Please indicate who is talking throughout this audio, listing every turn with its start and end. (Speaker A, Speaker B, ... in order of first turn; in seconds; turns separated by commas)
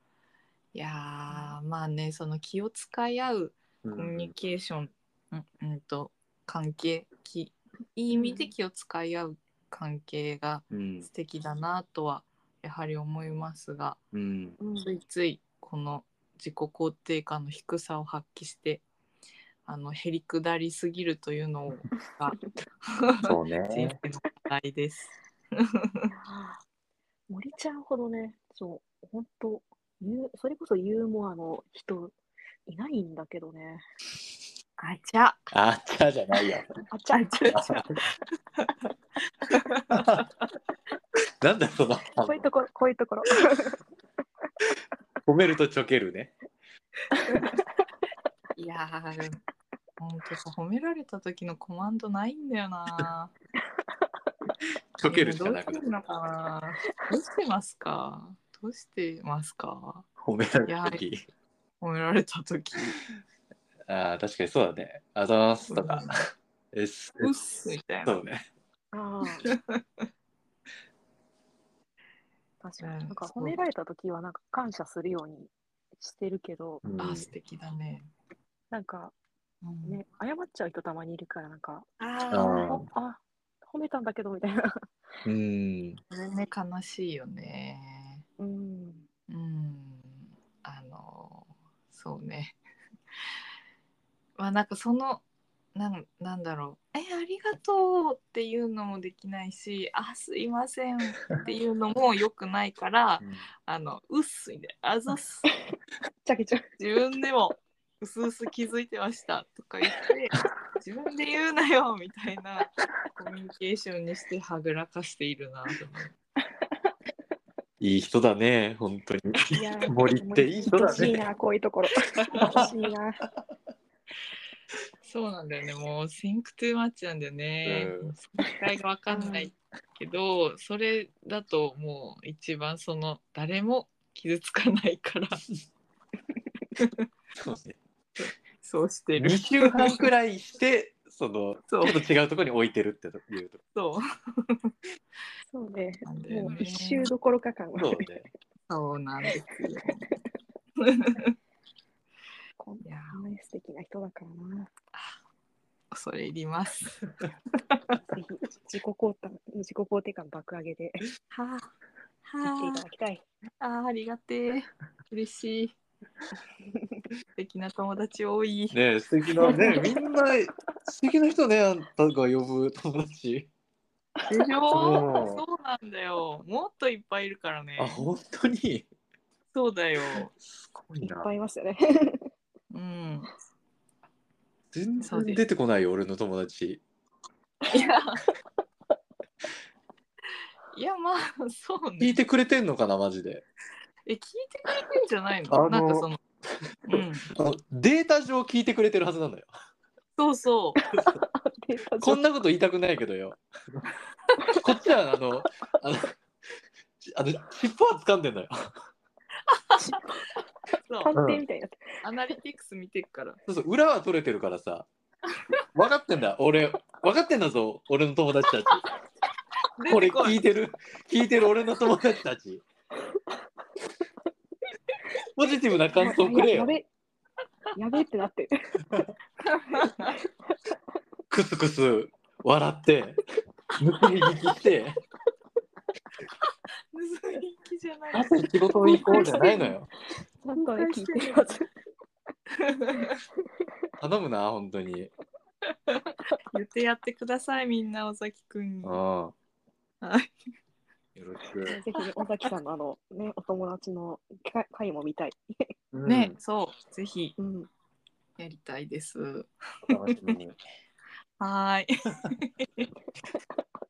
Speaker A: 0.7-14.0, Speaker B: 3.8-4.3, Speaker C: 8.1-8.5, Speaker B: 10.7-11.1, Speaker B: 14.1-14.6, Speaker C: 14.6-14.9, Speaker A: 14.8-18.8, Speaker A: 19.6-26.1, Speaker B: 23.2-24.0, Speaker C: 26.1-26.6, Speaker C: 27.3-33.8, Speaker A: 34.8-35.5, Speaker B: 35.5-36.7, Speaker C: 36.9-37.7, Speaker A: 37.1-37.8, Speaker B: 37.5-38.0, Speaker A: 38.6-38.9, Speaker A: 39.4-40.2, Speaker B: 39.9-40.3, Speaker B: 41.4-42.5, Speaker C: 42.2-43.8, Speaker B: 45.2-46.3, Speaker A: 47.1-47.6, Speaker A: 48.5-49.4, Speaker A: 50.0-53.3, Speaker C: 53.6-54.3, Speaker B: 55.0-55.8, Speaker A: 55.1-60.1, Speaker B: 60.2-61.2, Speaker A: 60.6-61.0, Speaker A: 61.8-63.0, Speaker B: 63.9-67.3, Speaker A: 65.7-66.2, Speaker A: 67.2-68.2, Speaker B: 68.0-68.5, Speaker C: 68.9-69.5, Speaker A: 69.4-69.8, Speaker C: 72.6-76.8, Speaker A: 72.8-73.6, Speaker B: 76.8-77.3, Speaker A: 77.0-78.1, Speaker C: 78.7-79.1, Speaker A: 79.6-80.0, Speaker C: 79.8-84.8, Speaker A: 82.0-82.8, Speaker B: 82.3-82.8, Speaker B: 85.2-86.0, Speaker A: 86.1-88.2, Speaker C: 88.4-89.0, Speaker A: 89.3-92.6, Speaker A: 94.4-95.2, Speaker A: 95.7-105.5, Speaker C: 105.7-106.7, Speaker A: 106.8-116.1, Speaker C: 116.4-116.9, Speaker B: 117.8-121.2, Speaker C: 119.5-123.2, Speaker A: 122.1-122.7, Speaker B: 122.4-122.7, Speaker A: 125.0-135.4, Speaker B: 127.6-128.1, Speaker C: 129.1-129.5, Speaker A: 136.8-137.0, Speaker B: 137.3-137.8, Speaker A: 138.2-140.1, Speaker B: 139.2-143.6, Speaker A: 141.7-142.0, Speaker A: 143.7-144.7, Speaker C: 145.5-148.1, Speaker A: 146.0-147.1, Speaker B: 147.8-148.3, Speaker A: 148.7-150.1, Speaker A: 150.8-151.3, Speaker C: 152.6-154.7, Speaker A: 152.8-153.2, Speaker A: 155.9-157.0, Speaker A: 157.7-157.9, Speaker C: 158.0-161.0, Speaker A: 161.3-161.7, Speaker A: 162.2-162.8, Speaker C: 162.4-163.2, Speaker A: 163.6-165.7, Speaker C: 166.7-167.1, Speaker A: 167.3-168.8, Speaker B: 168.7-173.5, Speaker A: 169.4-169.8, Speaker C: 169.4-170.0, Speaker A: 174.3-178.1, Speaker B: 174.6-175.4, Speaker B: 177.8-178.9, Speaker A: 179.5-180.3, Speaker B: 180.4-181.3, Speaker C: 181.0-182.3, Speaker A: 182.7-183.3, Speaker B: 184.7-186.8, Speaker A: 185.0-185.4, Speaker A: 187.7-188.2, Speaker A: 190.7-192.2, Speaker B: 192.0-193.4, Speaker A: 194.1-196.2, Speaker B: 195.5-196.1, Speaker A: 196.9-197.3, Speaker B: 196.9-199.5, Speaker A: 200.2-200.8, Speaker C: 201.0-202.2, Speaker B: 202.0-203.9, Speaker A: 204.2-204.6, Speaker B: 204.5-206.2, Speaker B: 207.0-208.6, Speaker A: 209.5-210.1, Speaker A: 210.8-211.2, Speaker C: 211.0-212.0, Speaker B: 211.1-211.4, Speaker A: 212.0-213.4, Speaker B: 213.5-214.9, Speaker B: 215.7-218.9, Speaker A: 219.8-220.4, Speaker B: 219.9-222.6, Speaker B: 225.3-226.7, Speaker C: 225.9-226.9, Speaker C: 227.7-228.5, Speaker A: 229.4-230.2, Speaker B: 231.3-233.2, Speaker B: 233.8-235.0, Speaker A: 236.9-239.6, Speaker B: 238.1-239.9, Speaker C: 238.8-239.8, Speaker C: 240.4-241.7, Speaker A: 240.5-241.5, Speaker A: 242.5-243.2, Speaker B: 244.0-245.1, Speaker A: 245.7-249.0, Speaker B: 248.8-249.3, Speaker A: 250.0-250.3, Speaker B: 251.2-251.8, Speaker C: 251.6-255.7, Speaker B: 255.9-256.3, Speaker A: 256.0-257.3, Speaker C: 257.4-257.7, Speaker A: 258.4-259.9, Speaker B: 259.9-260.6, Speaker A: 261.4-262.9